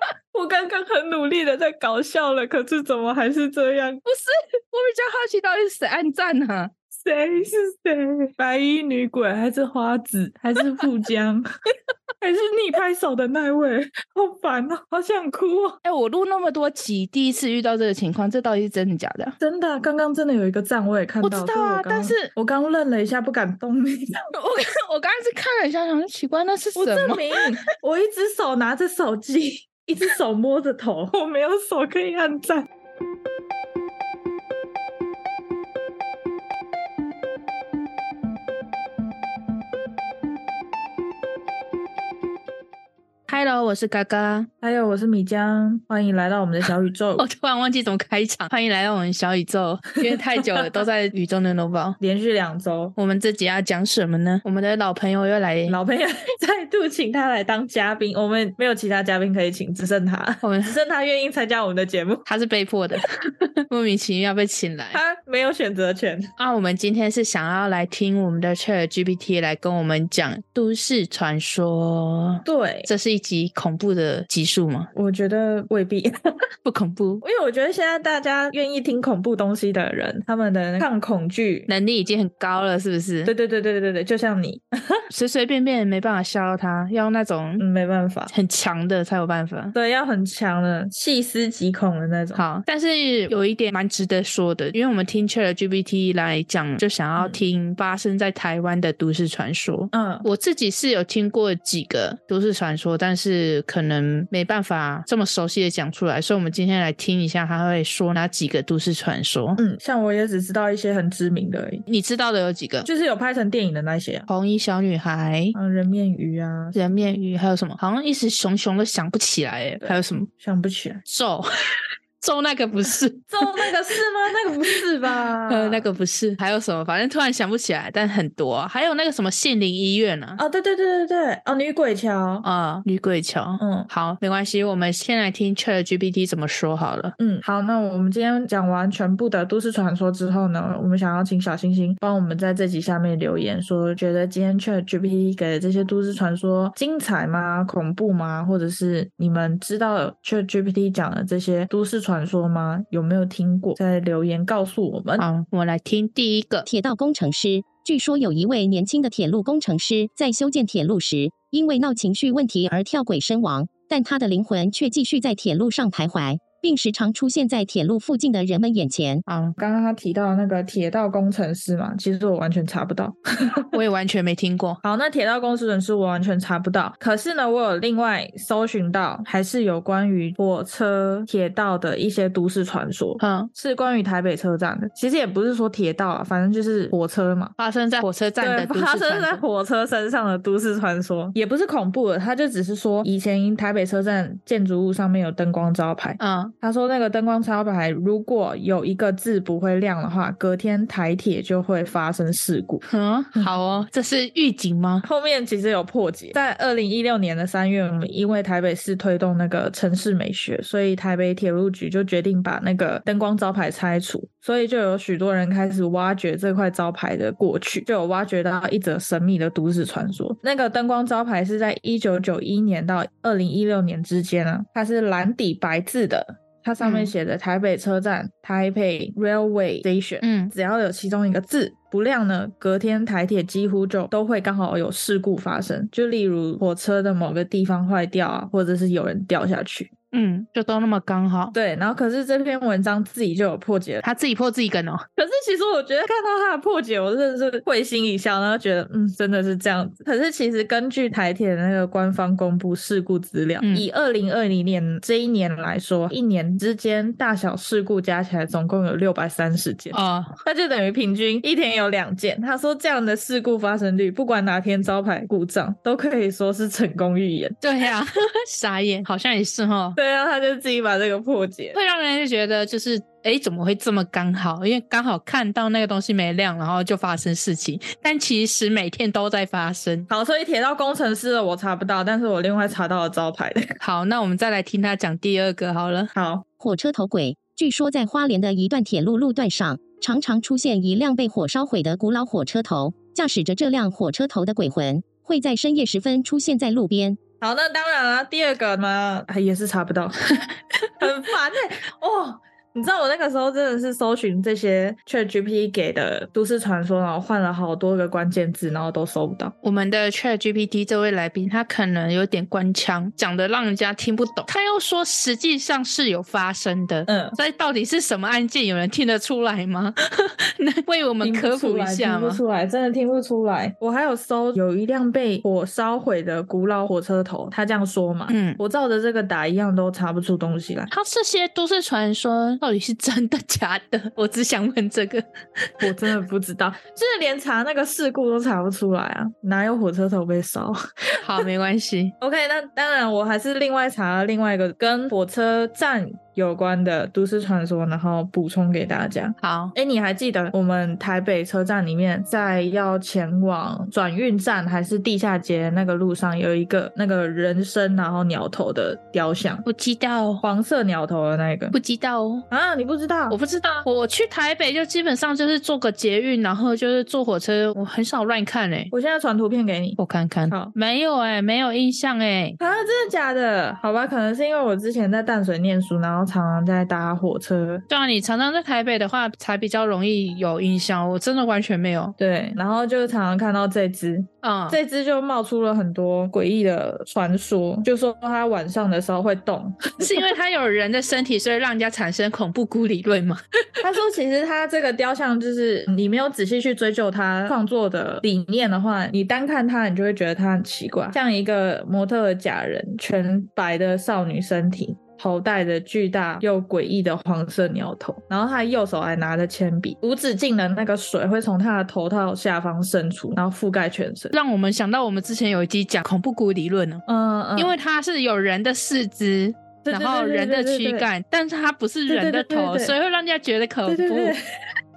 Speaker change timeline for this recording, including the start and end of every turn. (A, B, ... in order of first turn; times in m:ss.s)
0:00.3-0:04.0 A
0:04.0-0:06.7 B
0:07.0-0:11.5 A
0:12.2-0:15.8 A
0:15.8-0:19.4 B
0:19.4-0:24.2 A
0:21.2-0:22.3 B
0:24.3-0:27.4 B
0:26.8-0:32.7 A
0:43.3-0:44.5 B
0:44.6-0:47.2 A
0:47.2-0:52.0 B
0:52.0-0:52.9 A
0:53.0-0:55.8 B
0:55.7-1:02.2 A
1:00.4-1:00.8 B
1:02.3-1:03.1 B
1:03.7-1:05.0 B
1:04.9-1:06.3 A
1:06.4-1:14.9 B
1:12.4-1:12.9 A
1:14.9-1:16.2 A
1:16.6-1:17.2 B
1:17.2-1:21.7 A
1:21.7-1:23.3 B
1:23.2-1:25.0 A
1:25.1-1:27.6 B
1:27.6-1:28.3 A
1:28.3-1:29.7 B
1:29.7-1:32.4 A
1:32.3-1:49.6 B
1:39.9-1:40.2 A
1:49.6-1:51.8 A
1:51.9-1:52.9 B
1:52.8-1:54.3 A
1:54.3-1:55.5 B
1:55.5-1:56.8 A
1:56.7-2:00.3 B
1:59.8-2:01.0 A
2:01.0-2:04.0 B
2:03.3-2:05.9 A
2:05.5-2:10.4 B
2:10.4-2:12.4 A
2:12.4-2:17.2 B
2:13.6-2:13.9 A
2:17.2-2:35.2 A
2:35.2-2:36.7 B
2:36.6-2:49.2 C
2:49.3-2:49.6 B
2:49.6-2:53.7 A
2:53.7-2:54.8 B
2:54.8-3:07.5 A
3:03.2-3:03.5 B
3:07.6-3:09.4 B
3:08.4-3:22.8 A
3:16.2-3:16.5 B
3:22.8-3:25.0 B
3:25.0-3:59.9 A
3:46.8-3:47.1 B
3:50.2-3:50.5 B
4:00.1-4:01.5 B
4:01.5-4:04.0 A
4:04.0-4:05.0 B
4:05.2-4:27.6 A
4:13.6-4:13.9 B
4:19.9-4:20.4 B
4:27.6-4:30.0 B
4:30.0-4:31.8 A
4:31.7-4:40.1 B
4:40.1-4:43.7 A
4:43.8-4:46.1 B
4:46.1-4:46.4 A
4:46.6-4:57.2 C
4:57.4-5:00.4 A
5:01.0-5:09.5 A
5:09.6-5:22.4 B
5:17.1-5:17.4 A
5:21.2-5:30.9 A
5:28.3-5:28.6 B
5:30.9-5:35.2 B
5:35.8-5:41.4 A
5:41.2-5:42.1 B
5:42.2-5:59.6 A
5:49.4-5:49.7 B
5:59.6-6:00.4 B
6:00.4-6:01.7 A
6:01.7-6:02.4 B
6:02.5-6:03.4 A
6:03.3-6:08.9 B
6:08.9-6:10.7 A
6:10.0-6:12.6 B
6:12.6-6:17.8 A
6:17.9-6:22.1 B
6:22.2-6:30.3 A
6:24.4-6:24.8 B
6:30.0-6:33.4 B
6:33.8-6:54.3 A
6:54.3-6:57.0 B
6:57.1-6:57.8 A
6:57.6-7:04.4 B
6:59.8-7:01.1 A
7:02.1-7:02.9 A
7:03.8-7:04.4 A